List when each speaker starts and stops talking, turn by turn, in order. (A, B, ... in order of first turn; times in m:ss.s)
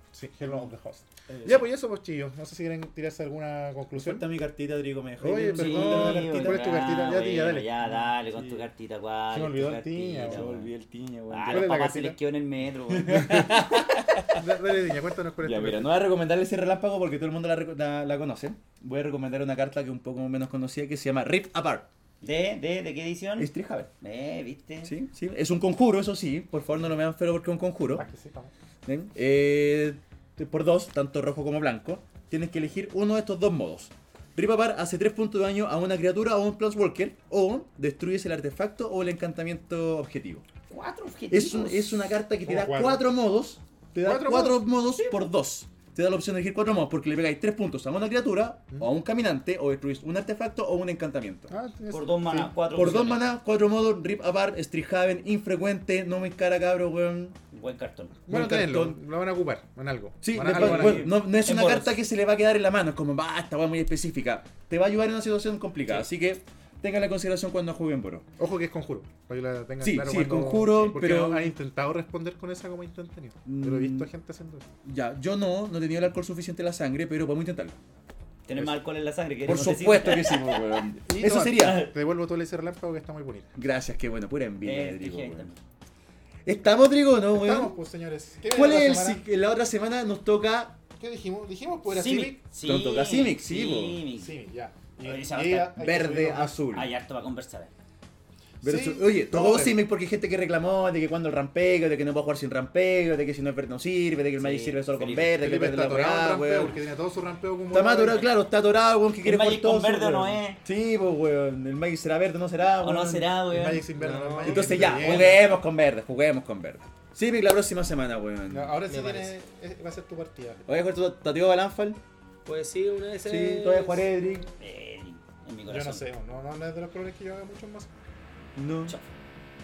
0:00.1-0:04.3 A
0:01.3-0:01.7 B
0:03.9-0:06.7 B
0:05.2-0:07.9 A
0:05.5-0:10.7 C
0:08.3-0:08.6 B
0:09.3-0:10.5 A
0:10.2-0:11.7 B
0:11.3-0:13.5 C
0:11.5-0:12.2 A
0:12.9-0:14.4 B
0:14.4-0:15.9 A
0:15.4-0:21.9 B
0:22.2-0:24.9 C
0:23.4-0:23.9 B
0:24.8-0:28.0 B
0:27.9-0:28.5 A
0:28.8-0:40.4 B
0:40.7-0:42.0 C
0:41.3-0:51.5 B
0:42.4-0:43.0 A
0:44.0-0:44.6 A
0:51.5-0:52.5 A
0:51.9-0:53.2 C
0:52.7-0:57.4 B
0:57.5-0:58.2 C
0:58.3-1:01.1 A
0:58.3-0:59.0 B
1:00.2-1:08.2 B
1:00.5-1:01.9 C
1:08.4-1:14.7 A
1:09.8-1:11.5 B
1:13.4-1:14.1 B
1:14.8-1:17.8 B
1:18.4-1:20.9 C
1:19.4-1:21.9 B
1:21.0-1:23.5 A
1:21.5-1:21.9 C
1:23.6-1:25.5 B
1:24.6-1:25.6 C
1:26.4-1:27.8 B
1:27.3-1:29.2 A
1:28.5-1:30.8 B
1:31.0-1:32.4 A
1:31.9-1:34.3 C
1:32.6-1:34.0 B
1:34.2-1:36.6 A
1:35.0-1:35.8 C
1:35.7-1:36.9 B
1:36.7-1:37.7 C
1:38.6-1:39.8 A
1:38.6-1:46.8 B
1:44.4-1:45.3 C
1:45.4-1:48.3 A
1:47.7-1:53.3 B
1:49.2-1:50.6 C
1:52.8-1:53.9 C
1:53.5-1:55.5 A
1:54.0-1:55.4 D
1:54.4-1:58.8 B
1:58.5-2:00.6 A
1:58.9-1:59.3 D
2:00.6-2:02.0 B
2:02.4-2:04.2 D
2:03.2-2:04.5 B
2:04.6-2:06.1 C
2:05.7-2:07.9 A
2:08.6-2:08.9 B